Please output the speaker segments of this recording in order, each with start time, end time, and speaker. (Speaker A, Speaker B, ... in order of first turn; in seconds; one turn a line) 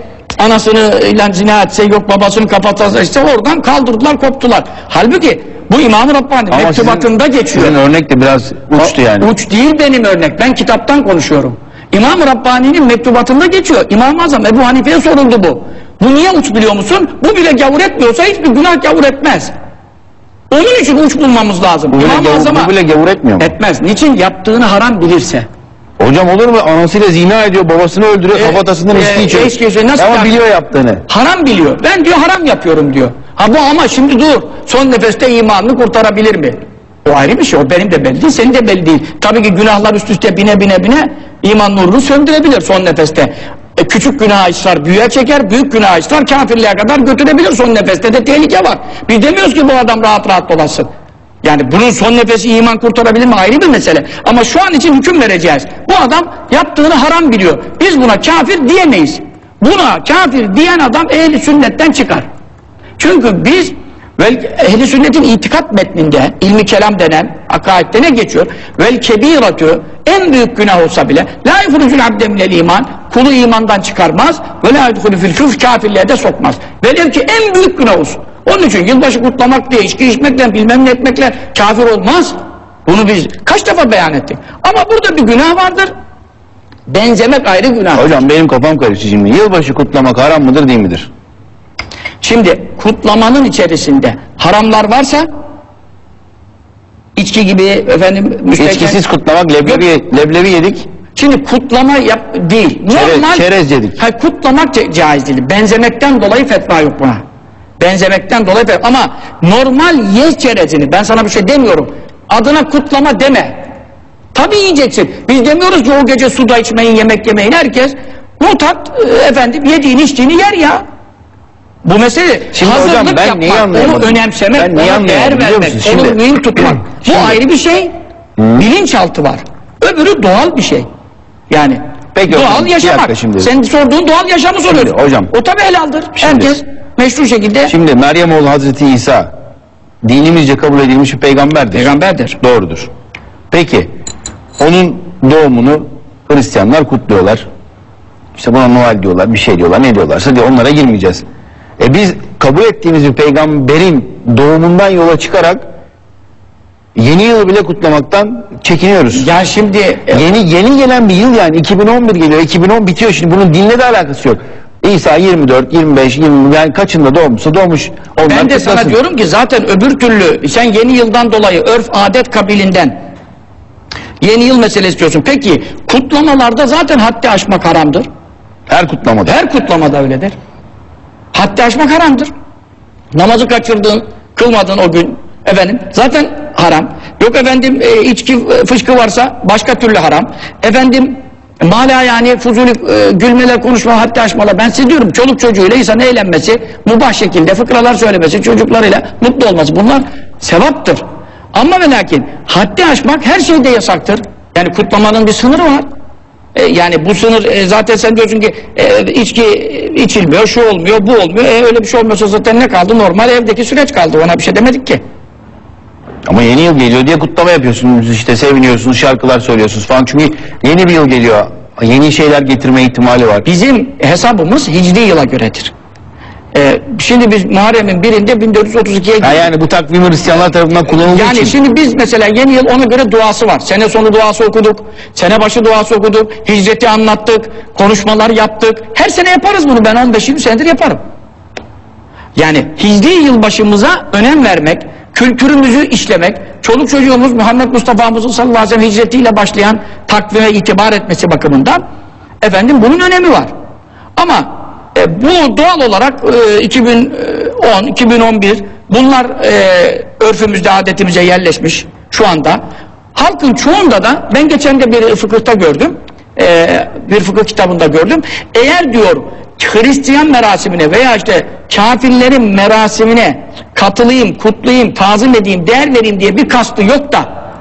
Speaker A: 0.4-7.8
Speaker B: 6.5-9.3
Speaker A: 8.8-19.5
Speaker A: 20.5-22.7
Speaker B: 21.9-23.5
Speaker A: 23.4-25.5
Speaker B: 26.0-31.0
Speaker A: 28.3-30.4
Speaker A: 31.1-50.9
Speaker A: 51.4-62.2
Speaker A: 63.0-85.9
Speaker A: 86.9-88.2
Speaker B: 87.9-91.1
Speaker A: 92.2-95.3
Speaker A: 97.2-99.0
Speaker B: 98.6-100.8
Speaker A: 101.1-103.5
Speaker B: 102.9-104.0
Speaker A: 104.0-107.2
Speaker A: 107.8-113.5
Speaker A: 114.3-120.8
Speaker A: 121.8-127.9
Speaker B: 122.5-126.2
Speaker B: 126.7-127.4
Speaker B: 128.4-128.7
Speaker A: 128.6-130.9
Speaker A: 131.5-137.7
Speaker B: 132.1-133.5
Speaker B: 134.7-135.3
Speaker B: 136.2-136.5
Speaker B: 137.7-139.3
Speaker B: 140.0-141.9
Speaker A: 141.7-142.4
Speaker B: 142.4-142.9
Speaker B: 143.5-143.9
Speaker B: 144.6-147.4
Speaker B: 148.4-151.2
Speaker B: 151.8-155.6
Speaker B: 156.9-159.2
Speaker A: 159.1-160.2
Speaker B: 160.1-169.0
Speaker A: 168.2-172.9
Speaker A: 174.2-178.0
Speaker B: 178.7-179.3
Speaker A: 179.2-180.3
Speaker A: 181.3-182.3
Speaker A: 183.1-201.0
Speaker A: 201.5-205.9
Speaker A: 206.5-215.0
Speaker B: 216.2-223.4
Speaker A: 223.4-225.7
Speaker A: 226.5-229.5
Speaker B: 229.2-231.5
Speaker A: 231.0-241.0
Speaker A: 242.3-251.8
Speaker A: 252.4-253.5
Speaker A: 254.2-262.6
Speaker A: 263.1-277.2